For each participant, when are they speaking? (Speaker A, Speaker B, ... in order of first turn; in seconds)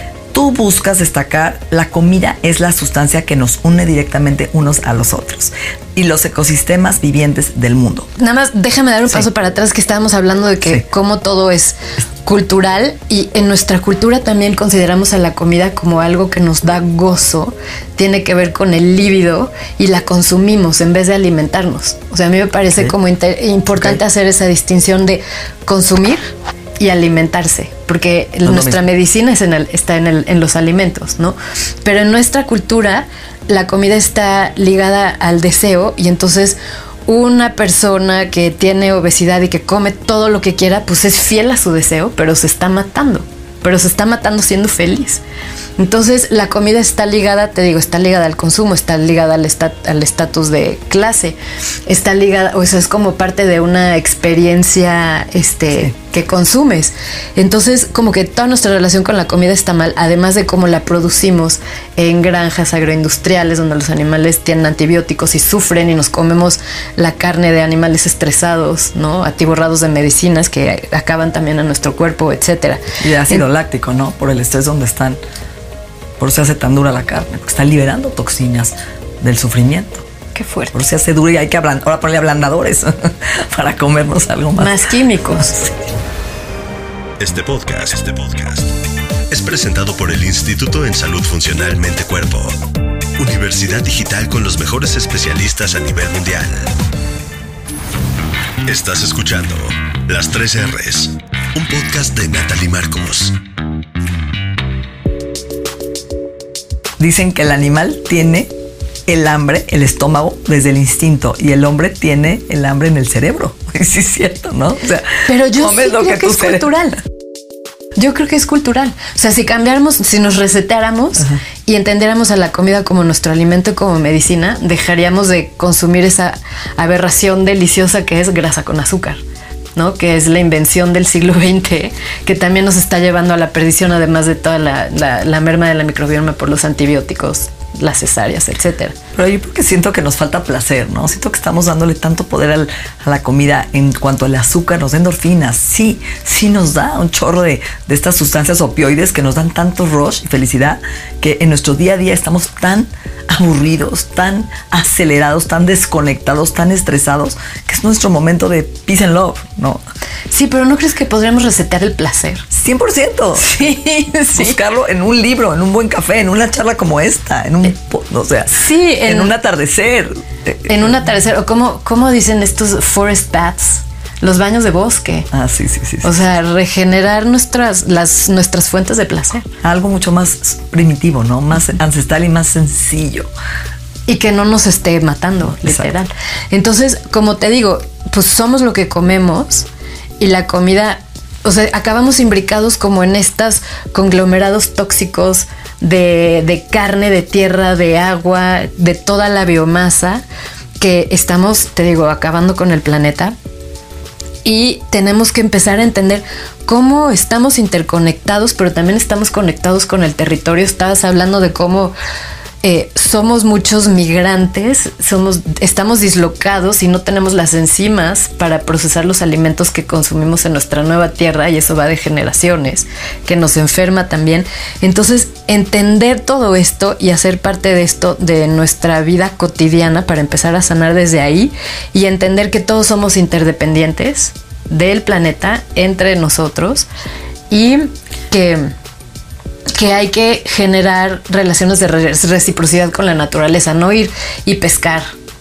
Speaker A: 0.3-8.1, 28.4-28.8, 73.0-75.2, 76.2-80.0, 80.7-84.8, 107.0-108.5, 109.1-116.7, 139.1-159.8, 162.5-163.6, 164.3-170.9, 175.3-176.2, 179.6-183.3, 185.6-185.9
Speaker B: 8.2-45.2, 45.8-73.4, 80.3-80.7, 84.6-85.7, 115.2-117.0, 118.0-129.2, 129.8-139.0, 160.3-162.4, 163.4-164.6, 168.5-169.3, 170.7-175.3, 176.0-179.5, 184.1-189.7, 190.2-200.2, 200.8-203.3, 204.4-211.9, 212.6-236.8, 237.5-238.7, 239.7-245.1
Speaker C: 87.2-88.7, 89.3-92.6, 93.2-96.7, 98.6-103.4